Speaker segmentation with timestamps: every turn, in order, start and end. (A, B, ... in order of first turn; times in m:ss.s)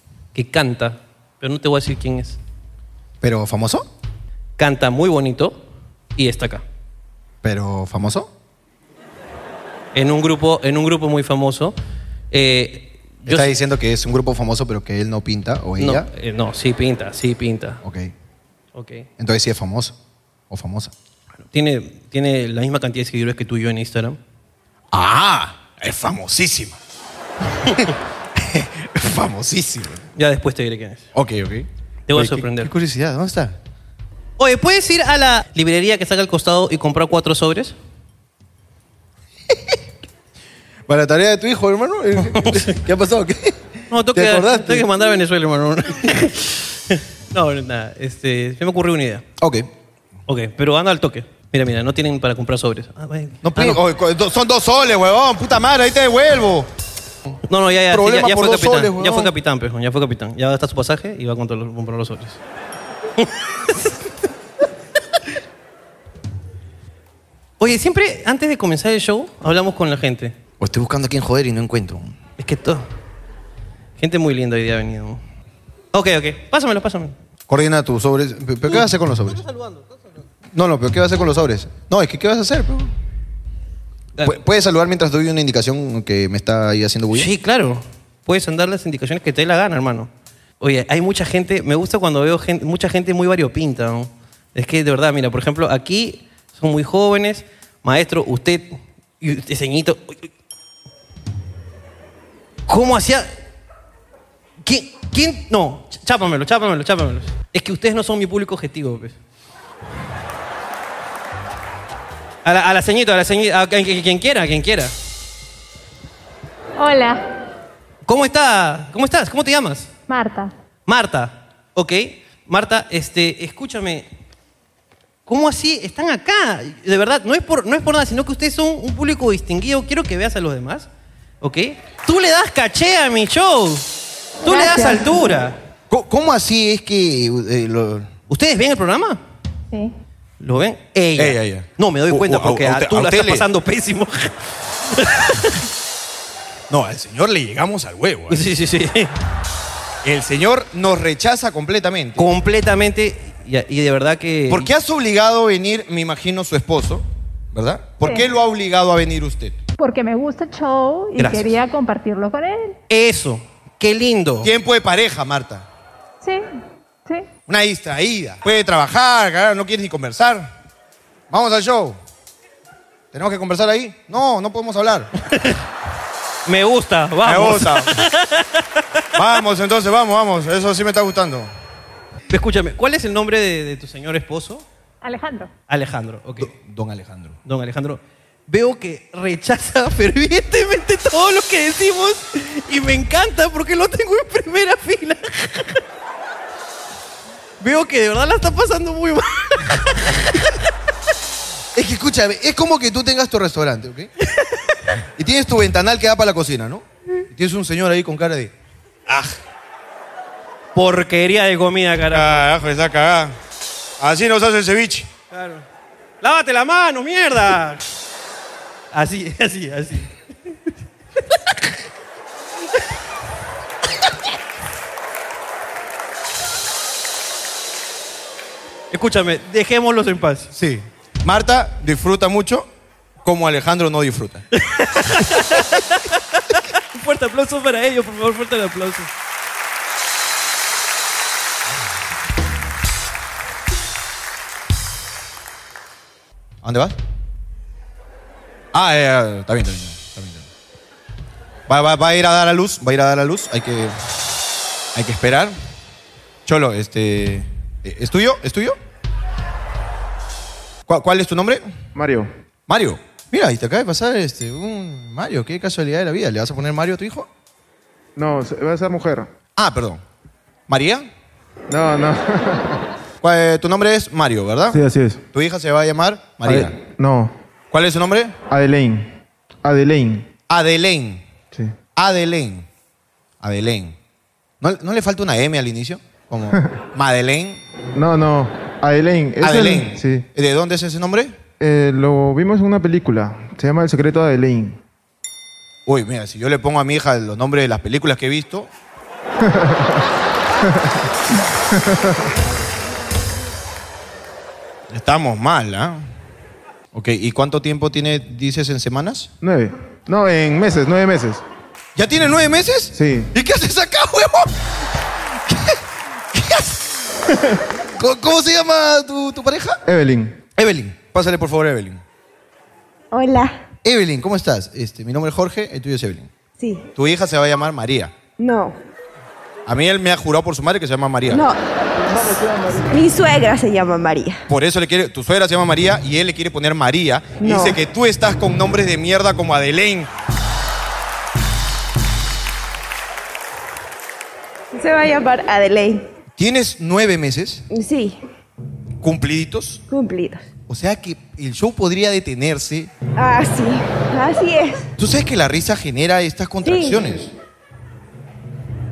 0:00.3-0:02.4 A
0:03.2-0:03.9 B
0:04.6-0:05.6 A
0:06.2-0:06.6 A
0:07.4-0:08.3 B
0:09.9-0:11.8 A
0:12.3-0:13.5 A
0:13.2-0:16.1 B
0:15.8-0:17.8 A
0:17.8-0:18.1 B
0:18.7-0:19.1 A
0:19.2-0:20.0 B
0:20.5-0:20.9 B
0:21.4-0:24.2 A
0:24.9-0:26.8 B
0:27.8-0:30.0 B
0:30.2-0:31.1 A
0:31.1-0:33.6 B
0:32.1-0:32.7 A
0:34.4-0:37.8 A
0:40.9-0:43.6 B
0:42.3-0:42.8 A
0:43.9-0:49.2 A
0:44.1-0:44.9 B
0:49.4-0:49.7 B
0:50.3-0:53.8 A
0:53.4-0:56.7 B
0:57.5-1:02.4 A
0:57.9-0:59.3 B
1:03.2-1:03.9 A
1:07.6-1:10.3 A
1:10.6-1:12.2 B
1:12.4-1:12.8 A
1:14.0-1:15.2 A
1:15.9-1:17.1 A
1:17.5-1:19.4 B
1:18.7-1:19.8 A
1:20.5-1:22.9 B
1:24.2-1:27.3 B
1:27.1-1:30.1 A
1:30.6-1:40.3 A
1:42.7-1:43.3 A
1:44.6-1:49.1 A
1:52.4-1:54.9 A
1:56.8-1:57.2 C
1:58.0-1:59.9 A
2:00.1-2:00.5 C
2:00.9-2:04.1 A
2:05.2-2:10.9 A
2:11.4-2:13.8 A
2:14.4-2:15.6 A
2:14.5-2:15.3 C
2:15.9-2:18.1 B
2:18.3-2:19.2 A
2:20.4-2:25.6 A
2:21.2-2:23.4 B
2:26.7-2:28.4 B
2:28.3-2:29.1 A
2:30.0-2:32.3 B
2:32.2-2:34.7 A
2:34.5-2:39.6 B
2:39.8-2:42.8 C
2:41.2-2:41.6 A
2:42.9-2:44.5 A
2:44.4-2:45.6 B
2:46.2-2:46.5 C
2:47.5-2:50.5 B
2:51.3-2:52.0 B
2:53.1-2:55.1 B
2:55.2-2:55.6 A
2:56.5-2:59.0 A
2:57.2-2:58.0 B
2:59.2-3:01.5 B
3:02.3-3:04.6 A
3:05.0-3:05.5 C
3:05.7-3:06.5 A
3:06.4-3:07.4 B
3:07.4-3:15.8 A
3:17.6-3:20.6 A
3:21.7-3:24.1 B
3:25.2-3:28.5 B
3:29.1-3:29.4 B
3:30.7-3:32.5 A
3:32.1-3:33.4 B
3:34.0-3:35.1 B
3:35.3-3:35.6 A
3:36.2-3:37.8 A
3:38.9-3:40.1 A
3:41.3-3:41.7 A
3:48.9-3:50.5 A
3:50.5-3:52.7 B
3:53.2-3:54.4 B
3:54.5-3:59.1 A
4:06.6-4:07.0 B
4:08.7-4:10.5 B
4:11.7-4:14.0 B
4:14.9-4:15.5 B
4:16.4-4:18.8 B
4:20.9-4:21.7 B
4:21.9-4:22.3 D
4:22.7-4:27.3 B
4:28.2-4:29.3 D
4:29.6-4:30.0 B
4:30.7-4:31.1 B
4:31.7-4:32.8 D
4:33.2-4:34.8 B
4:34.7-4:35.2 D
4:35.3-4:36.7 B
4:36.4-4:37.3 D
4:37.7-4:38.4 B
4:38.5-4:39.1 D
4:39.6-4:40.3 D
4:40.5-4:41.2 B
4:41.9-4:42.7 B
4:43.4-4:44.0 B
4:44.6-4:47.6 B
4:47.9-4:50.2 D
4:49.4-4:51.4 B
4:51.6-4:54.8 D
4:55.8-4:58.7 B
4:59.4-5:00.1 D
5:00.6-5:01.1 D
5:01.7-5:02.3 D
5:04.9-5:06.0 B
5:06.9-5:09.3 B
5:09.4-5:11.4 D
5:11.9-5:14.7 B
5:12.9-5:13.3 D
5:15.4-5:17.2 B
5:17.8-5:19.8 B
5:19.9-5:20.4 D
5:20.6-5:22.0 B
5:23.1-5:23.6 E
5:23.8-5:26.3 B
5:26.6-5:26.9 E
5:27.0-5:28.1 B
5:28.4-5:28.8 E
5:29.6-5:31.5 B
5:31.3-5:31.6 E
5:32.1-5:34.4 E
5:34.5-5:40.1 B
5:37.4-5:37.8 E
5:44.7-5:46.1 E
5:46.4-5:47.6 B
5:47.7-5:48.2 E
5:49.0-5:49.8 B
5:49.9-5:50.5 E
5:50.7-5:52.9 B
5:53.2-5:54.9 E
5:55.0-5:57.3 B
5:56.6-5:57.0 E